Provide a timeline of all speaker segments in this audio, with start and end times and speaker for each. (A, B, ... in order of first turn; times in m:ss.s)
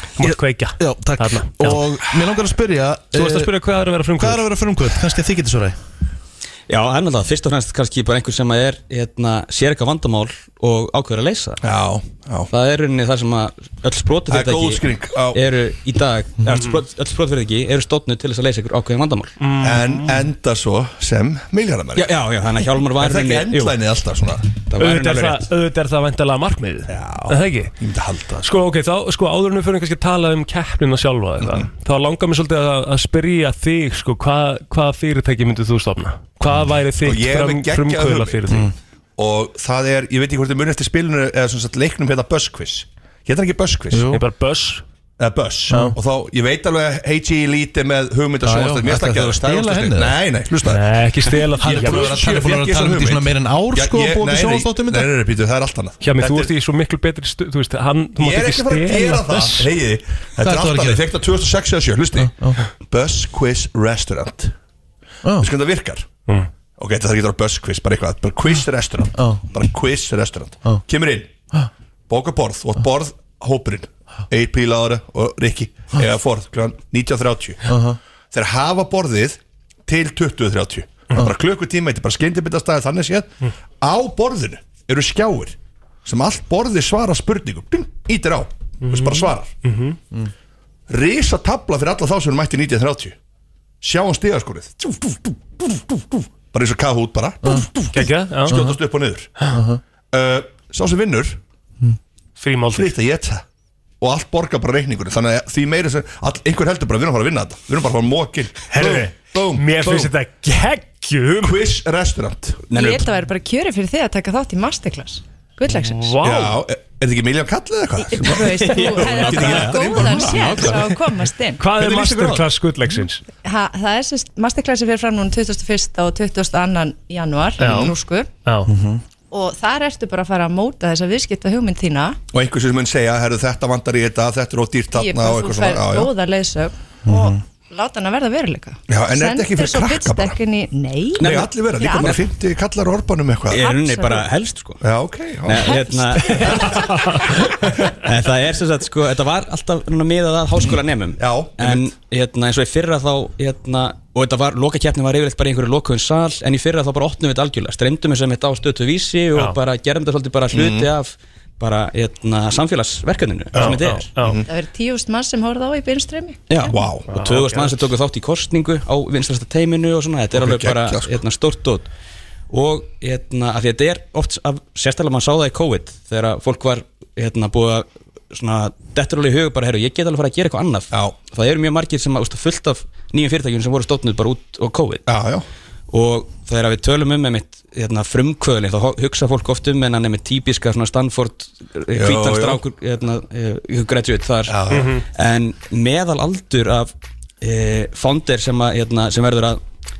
0:00.2-0:01.8 A
0:00.2-0:03.6 B
0:03.1-0:04.5 A
0:04.2-0:05.8 B
0:06.7-0:11.6 C
0:11.6-0:12.5 D
0:12.5-0:19.4 C
0:14.3-0:15.4 D
0:19.4-0:20.3 A
0:19.6-0:22.1 D
0:22.0-0:23.8 C
0:23.0-0:24.5 D
0:24.7-0:25.5 C
0:24.8-0:27.7 A
0:26.9-0:28.5 D
0:28.4-0:38.7 A
0:36.5-0:36.7 B
0:37.0-0:38.5 D
0:39.2-0:44.0 D
0:43.9-0:44.2 B
0:44.1-0:44.8 A
0:45.2-0:50.8 D
0:48.4-0:50.2 B
0:50.7-0:52.3 A
0:51.6-0:55.1 B
0:51.7-0:56.5 D
0:56.0-0:59.7 A
0:58.2-1:02.3 D
1:00.4-1:01.1 B
1:02.2-1:02.6 B
1:02.9-1:04.5 D
1:05.2-1:05.5 B
1:05.4-1:06.1 D
1:06.8-1:11.4 D
1:09.2-1:09.4 B
1:12.1-1:17.7 D
1:17.7-1:18.0 B
1:18.3-1:29.5 D
1:28.8-1:30.0 A
1:30.9-1:33.2 D
1:33.8-1:39.4 D
1:37.9-1:38.7 A
1:39.5-1:39.8 B
1:40.1-1:41.4 D
1:42.4-1:42.9 A
1:42.7-1:43.4 D
1:44.0-1:50.1 D
1:48.7-1:51.6 A
1:51.4-1:52.7 D
1:52.7-1:53.1 C
1:52.7-1:56.2 E
1:55.8-1:56.6 A
1:56.2-2:00.8 D
1:58.1-2:01.7 E
1:58.5-2:00.9 C
2:01.6-2:03.2 A
2:01.7-2:02.5 D
2:03.4-2:08.3 E
2:07.6-2:08.7 A
2:07.6-2:07.9 D
2:08.7-2:09.0 B
2:09.3-2:12.2 E
2:12.3-2:16.1 D
2:14.9-2:22.2 E
2:17.1-2:17.4 B
2:18.9-2:20.4 D
2:21.2-2:22.2 C
2:21.2-2:23.6 D
2:23.5-2:24.8 C
2:23.5-2:24.3 E
2:24.8-2:25.8 D
2:25.4-2:44.1 C
2:26.2-2:27.9 A
2:30.6-2:31.9 D
2:40.5-2:40.9 D
2:43.6-2:44.4 A
2:43.6-2:44.5 D
2:44.5-2:46.7 E
2:46.5-2:51.9 C
2:46.7-2:47.1 D
2:47.1-2:47.7 A
2:50.3-2:51.2 D
2:52.5-3:05.0 C
3:00.9-3:01.2 D
3:05.1-3:05.4 D
3:05.9-3:19.6 C
3:12.0-3:12.6 D
3:14.5-3:14.9 D
3:14.7-3:15.0 A